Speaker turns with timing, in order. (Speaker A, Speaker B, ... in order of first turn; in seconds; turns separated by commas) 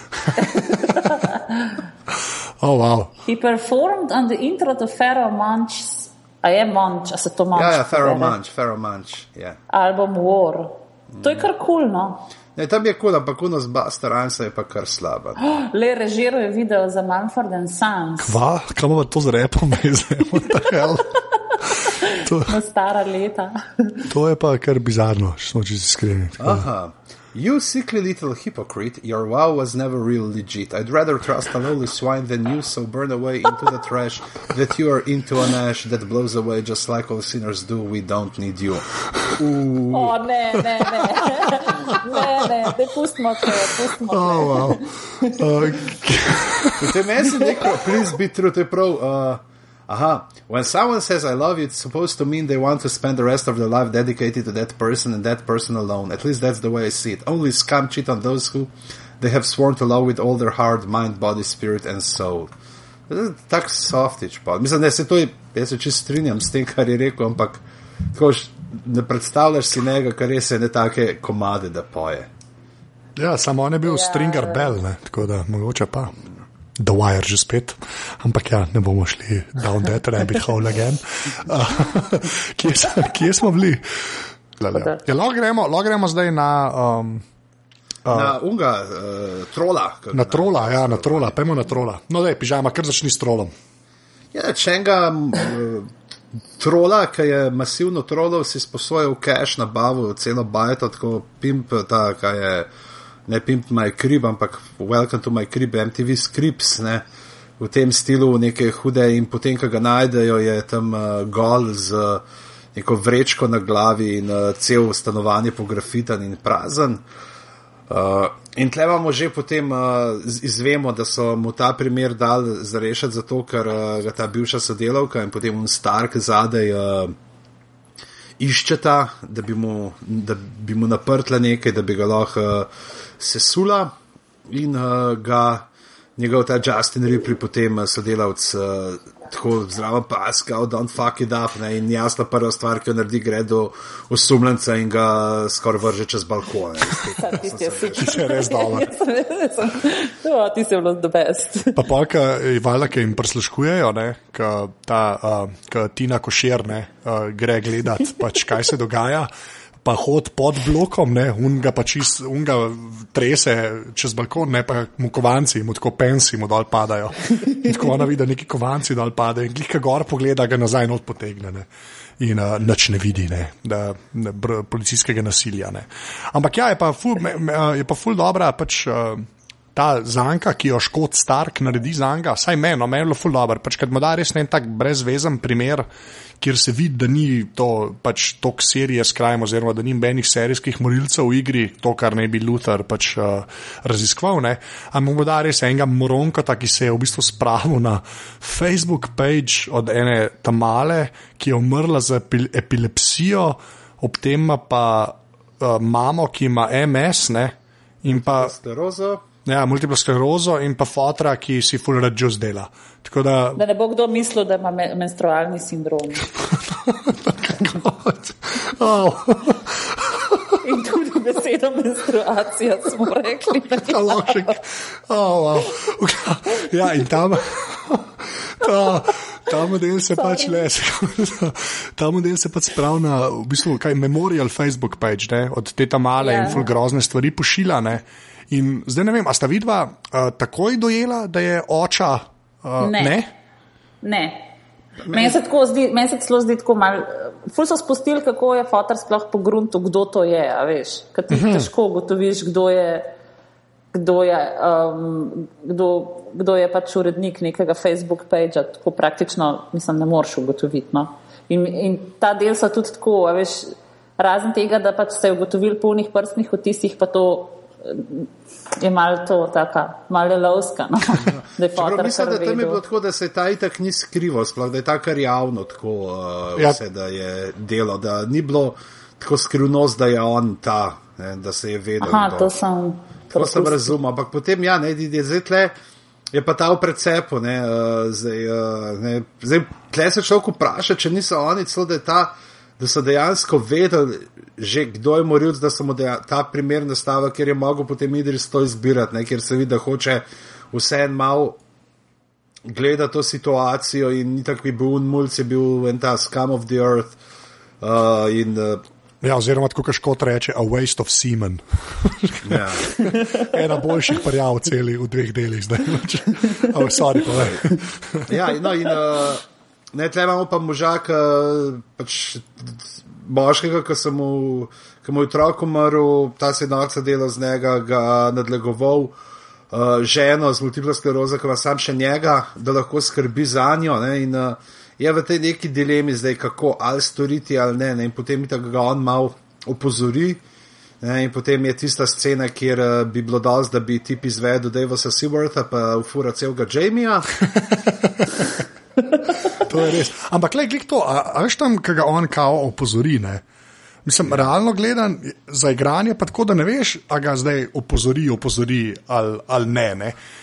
Speaker A: 0.4-1.8, Speaker B: 2.6-3.1, Speaker A: 3.3-8.3, Speaker C: 7.5-9.6, Speaker A: 9.7-12.3, Speaker C: 11.1-11.5, Speaker C: 12.6-15.5, Speaker A: 15.4-18.4, Speaker B: 18.2-22.6, Speaker A: 21.8-24.1, Speaker B: 24.1-26.7, Speaker C: 26.4-40.2, Speaker A: 39.9-45.5, Speaker B: 40.6-42.7, Speaker B: 43.5-47.0, Speaker C: 46.8-62.5, Speaker C: 63.1-67.6, Speaker C: 68.1-72.3, Speaker B: 73.2-76.2, Speaker A: 73.8-74.8, Speaker B: 76.8-87.2, Speaker A: 84.7-85.0, Speaker B: 88.1-88.3, Speaker C: 88.1-91.3, Speaker B: 90.1-93.5, Speaker C: 94.3-95.9, Speaker C: 96.6-102.7, Speaker C: 103.3-107.0, Speaker C: 107.6-112.2, Speaker C: 112.8-117.0, Speaker C: 117.9-127.1, Speaker C: 128.4-132.7, Speaker C: 133.2-133.9, Speaker C: 134.5-135.7, Speaker C: 136.2-148.2, Speaker A: 147.2-151.8, Speaker B: 148.0-148.9, Speaker B: 151.8-159.3, Speaker B: 159.8-171.7, Speaker B: 172.2-185.9, Speaker B: 186.4-208.5, Speaker C: 208.1-209.2, Speaker B: 209.4-213.6, Speaker A: 213.6-216.3, Speaker B: 216.4-220.6, Speaker A: 220.6-224.6, Speaker B: 223.7-243.3, Speaker A: 230.2-230.7, Speaker A: 236.2-236.7, Speaker A: 242.8-243.2, Speaker A: 244.0-244.5, Speaker C: 245.0-245.4, Speaker A: 245.1-253.1, Speaker B: 251.3-251.7, Speaker A: 253.9-268.3, Speaker A: 268.8-272.8, Speaker C: 271.2-282.6, Speaker A: 282.0-284.0, Speaker C: 283.3-285.7, Speaker C: 286.3-301.6, Speaker C: 302.7-307.2, Speaker C: 307.8-308.8, Speaker B: 309.2-318.3, Speaker C: 312.4-312.9, Speaker A: 313.0-313.4, Speaker C: 318.3-329.1, Speaker C: 329.7-340.4, Speaker C: 341.0-347.3, Speaker B: 347.4-348.3, Speaker B: 349.5-353.4, Speaker B: 354.1-360.2